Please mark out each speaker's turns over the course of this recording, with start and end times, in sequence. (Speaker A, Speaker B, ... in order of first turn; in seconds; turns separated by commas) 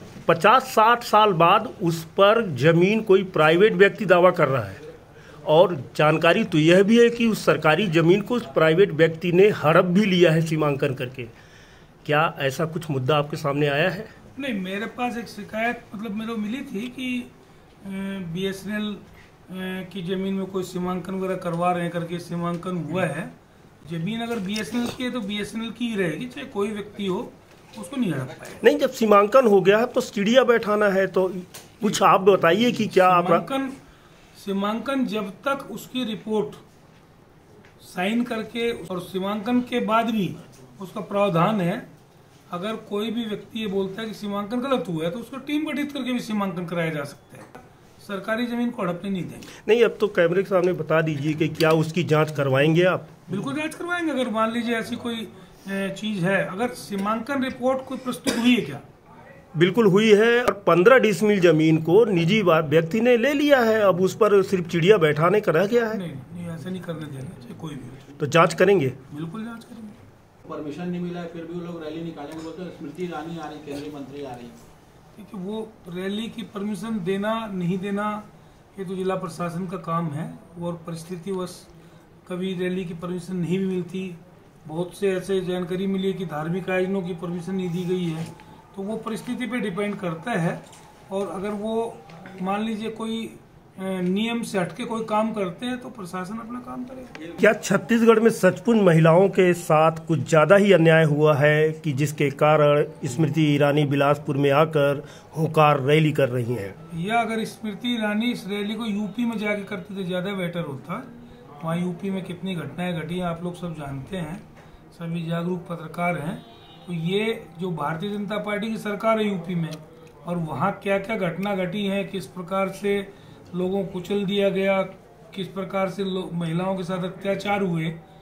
Speaker A: 0.3-4.8, Speaker A: 5.5-11.3, Speaker A: 12.1-14.1, Speaker B: 14.4-17.3, Speaker B: 17.8-28.6, Speaker A: 28.6-33.5, Speaker B: 32.8-33.8, Speaker B: 34.4-36.6, Speaker B: 37.8-41.9, Speaker B: 42.5-49.5, Speaker A: 49.6-53.1, Speaker B: 53.3-58.8, Speaker A: 59.5-66.0, Speaker B: 65.9-68.2, Speaker A: 68.2-69.0, Speaker B: 69.1-70.0, Speaker C: 70.4-74.6, Speaker B: 75.2-81.7, Speaker B: 82.3-97.3, Speaker A: 97.4-106.8, Speaker B: 106.9-111.1, Speaker B: 111.6-128.0